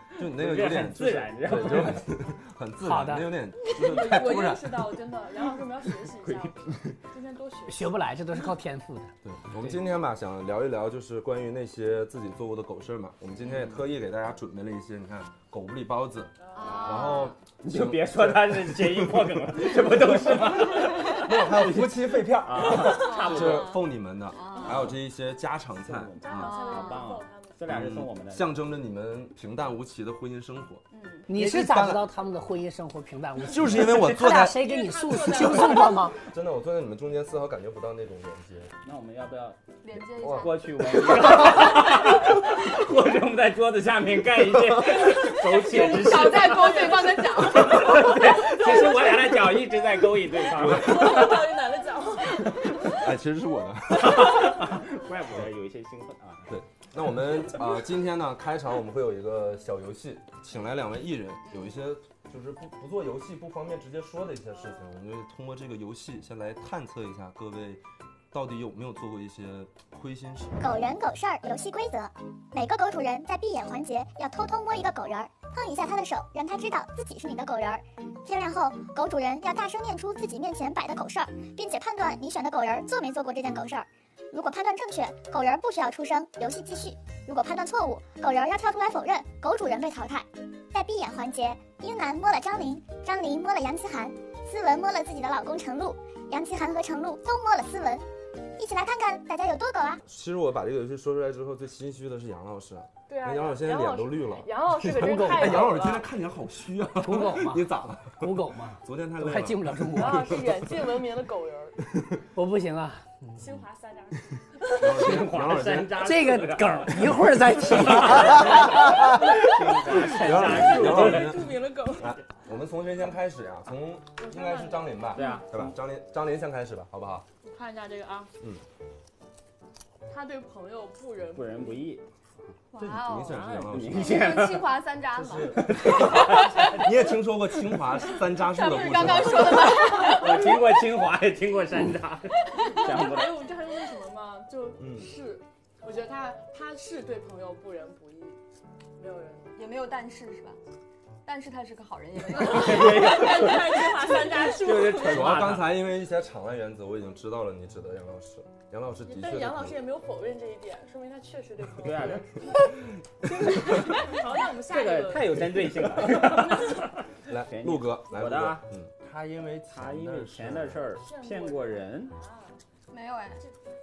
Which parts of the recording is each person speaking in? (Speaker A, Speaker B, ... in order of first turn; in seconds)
Speaker A: 0.1-4.9, 9.2-26.5, 27.7-32.1, 33.4-34.6, 36.2-38.7, 40.2-40.5, 50.5-51.2, 52.9-54.5, 56.5-70.7, 100.0-110.5, 114.8-116.3, 118.0-127.2, 132.8-134.2, 135.1-139.9, 144.8-145.1, 155.0-159.8, 167.3-170.8
Speaker B: 0.2-2.0, 6.2-6.5, 13.4-13.8, 16.6-17.1, 17.6-23.8, 25.8-28.5, 38.8-39.6, 40.2-51.5, 52.5-52.9, 54.0-56.5, 114.8-117.2, 117.8-121.5, 125.1-125.7, 131.3-132.0, 133.3-134.8, 135.5-136.8, 139.6-143.4, 152.4-153.8, 154.4-155.7, 161.8-162.7, 163.2-164.2, 164.7-168.7, 169.7-172.1
Speaker C: 2.8-3.3, 7.7-9.1, 31.3-36.2, 105.0-105.6, 107.0-110.4, 112.3-113.4, 115.9-118.7
Speaker D: 3.7-8.0, 16.4-17.2, 26.2-27.6, 34.4-36.1, 48.6-48.9, 50.6-52.9, 103.1-106.1, 109.9-111.8, 113.3-114.8, 119.2-119.5, 120.1-122.2, 124.2-125.5, 127.4-128.3, 130.1-131.9, 142.7-148.4, 149.0-149.5, 152.6-155.4, 159.0-162.6, 163.5-166.9, 170.9-172.6
Speaker E: 16.5-17.4, 22.6-25.0, 26.3-27.1, 30.9-31.3, 39.8-40.6, 45.5-48.2, 61.5-61.8, 132.7-136.8, 138.1-140.7, 149.5-150.6, 151.2-153.8, 172.9-173.4
Speaker F: 70.6-98.0, 98.6-100.0